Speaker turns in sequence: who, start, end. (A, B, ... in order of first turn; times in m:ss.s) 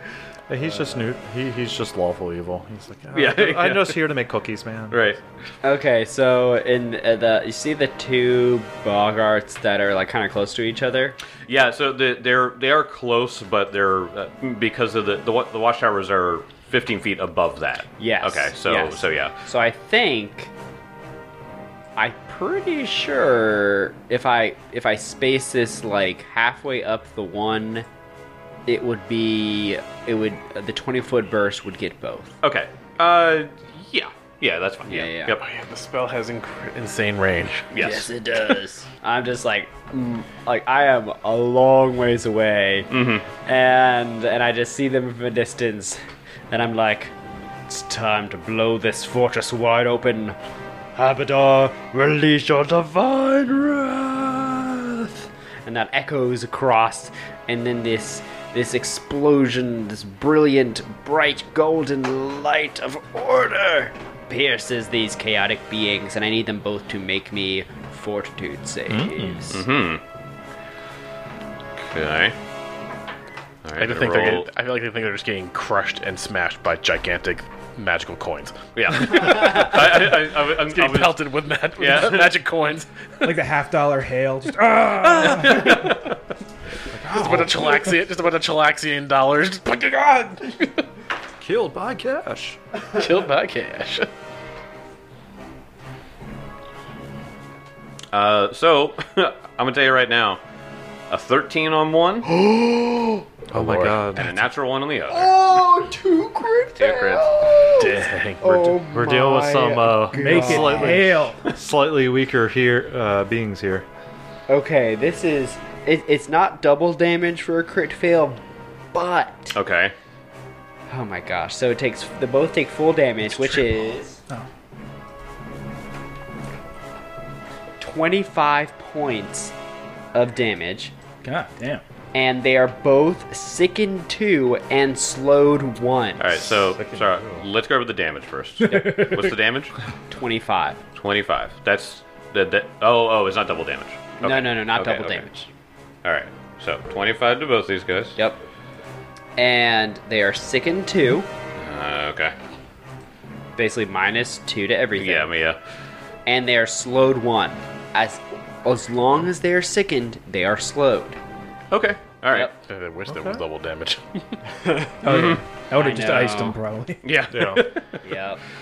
0:00.5-0:05.0 A
0:03.1-0:04.1 B
0:04.9-0:05.2 B
0:05.6-0:11.2 C
0:11.4-0:19.3 B
0:18.0-0:20.5 C
0:22.0-0:27.8 C
0:28.7-0:32.3 C
0:32.4-0:35.4 B
0:34.8-0:35.3 C
0:35.3-0:37.6 D
0:37.7-0:38.1 B
0:37.8-0:47.1 C
0:42.9-0:43.3 B
0:47.7-0:50.4 C
0:51.0-1:09.6 C
1:08.9-1:09.4 A
1:09.5-1:10.0 B
1:11.8-1:12.3 B
1:13.6-1:14.5 B
1:13.8-1:18.6 D
1:18.7-1:22.4 B
1:19.1-1:23.3 D
1:23.2-1:26.0 E
1:25.3-1:26.1 B
1:26.9-1:27.6 A
1:27.1-1:30.8 D
1:31.4-1:32.6 A
1:32.9-1:34.1 D
1:38.1-1:40.4 B
1:41.1-1:42.3 B
1:42.2-1:43.2 C
1:43.5-1:44.2 A
1:43.5-1:44.0 D
1:44.1-1:45.3 B
1:45.1-1:51.2 C
1:46.8-1:47.2 B
1:47.8-1:48.8 D
1:48.9-1:53.8 A
1:50.1-1:51.4 E
1:54.5-1:58.4 C
1:58.9-1:59.6 C
1:59.5-1:59.9 B
2:00.9-2:04.2 C
2:07.8-2:09.5 C
2:10.1-2:10.9 C
2:11.2-2:11.8 E
2:12.1-2:16.3 C
2:16.2-2:19.8 B
2:16.5-2:17.4 A
2:18.6-2:19.3 E
2:18.7-2:19.2 C
2:20.1-2:20.8 C
2:20.9-2:25.3 B
2:24.2-2:25.5 C
2:26.0-2:28.2 B
2:29.4-2:31.3 C
2:31.6-2:32.3 B
2:33.6-2:35.3 C
2:35.0-2:35.6 B
2:36.2-2:41.2 C
2:41.7-2:42.5 B
2:42.6-2:44.4 D
2:43.0-2:43.4 A
2:44.6-2:44.9 C
2:45.0-2:47.0 E
2:45.0-2:45.4 B
2:45.7-2:46.6 C
2:47.0-2:47.8 B
2:47.3-2:47.6 A
2:48.0-2:48.4 C